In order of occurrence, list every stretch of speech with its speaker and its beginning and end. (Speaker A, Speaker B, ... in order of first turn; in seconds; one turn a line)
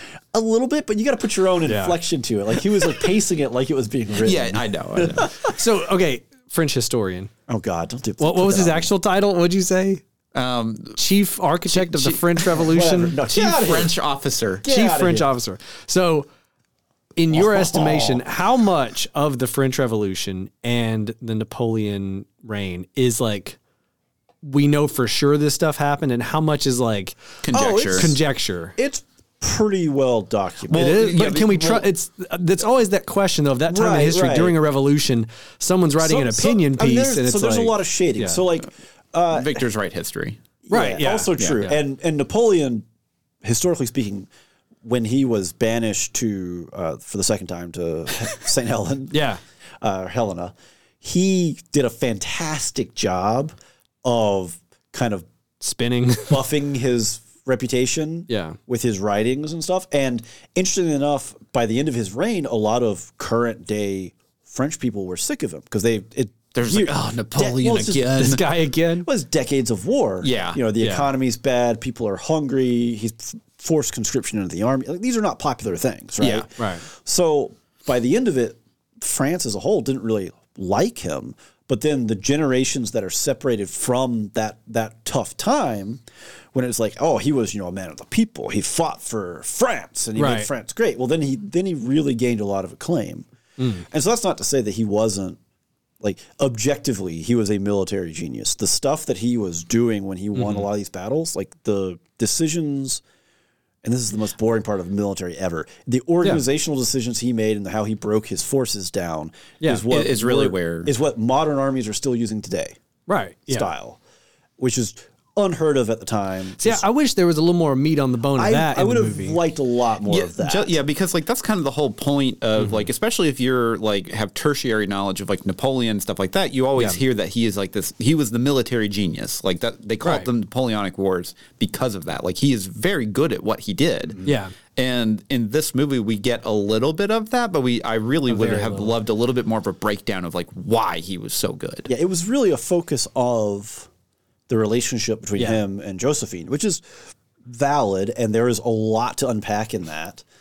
Speaker A: 0.3-5.6
Speaker B: 1.6-1.9
Speaker C: 4.2-5.3
Speaker B: 5.4-7.3
Speaker A: 7.5-8.9
Speaker B: 8.2-10.0
Speaker C: 10.3-11.0
Speaker B: 11.0-13.2
Speaker C: 11.7-12.3
Speaker A: 12.5-13.9
Speaker C: 13.3-14.6
Speaker A: 14.6-15.3
Speaker B: 14.7-16.2
Speaker B: 17.1-23.6
Speaker A: 17.3-18.2
Speaker B: 24.4-27.2
Speaker C: 27.4-28.1
Speaker A: 27.5-28.2
Speaker B: 27.9-28.7
Speaker A: 28.8-31.1
Speaker C: 30.7-31.8
Speaker B: 30.7-38.4
Speaker A: 33.7-34.5
Speaker A: 36.0-39.6
Speaker C: 39.3-40.4
Speaker A: 40.6-42.8
Speaker B: 40.7-41.8
Speaker A: 43.4-44.3
Speaker A: 44.8-49.2
Speaker B: 49.1-49.4
Speaker A: 49.8-55.3
Speaker B: 55.6-56.5
Speaker A: 56.3-68.4
Speaker B: 58.3-58.6
Speaker C: 66.5-68.4
Speaker B: 68.2-69.1
Speaker A: 69.0-86.0
Speaker C: 70.2-70.6
Speaker B: 70.8-71.1
Speaker C: 76.2-76.5
Speaker B: 76.6-76.8
Speaker A: 86.5-95.4
Speaker B: 90.2-90.5
Speaker A: 96.0-103.0
Speaker B: 100.3-100.6
Speaker A: 103.8-112.8
Speaker C: 109.9-110.9
Speaker B: 113.1-113.7
Speaker A: 113.5-114.0
Speaker A: 114.6-116.8
Speaker B: 116.6-119.4
Speaker A: 118.4-120.7
Speaker C: 120.1-134.2
Speaker B: 130.0-130.3
Speaker B: 134.2-134.5
Speaker C: 134.8-141.9
Speaker B: 138.3-138.9
Speaker A: 141.9-143.9
Speaker A: 144.5-146.8
Speaker A: 147.4-150.2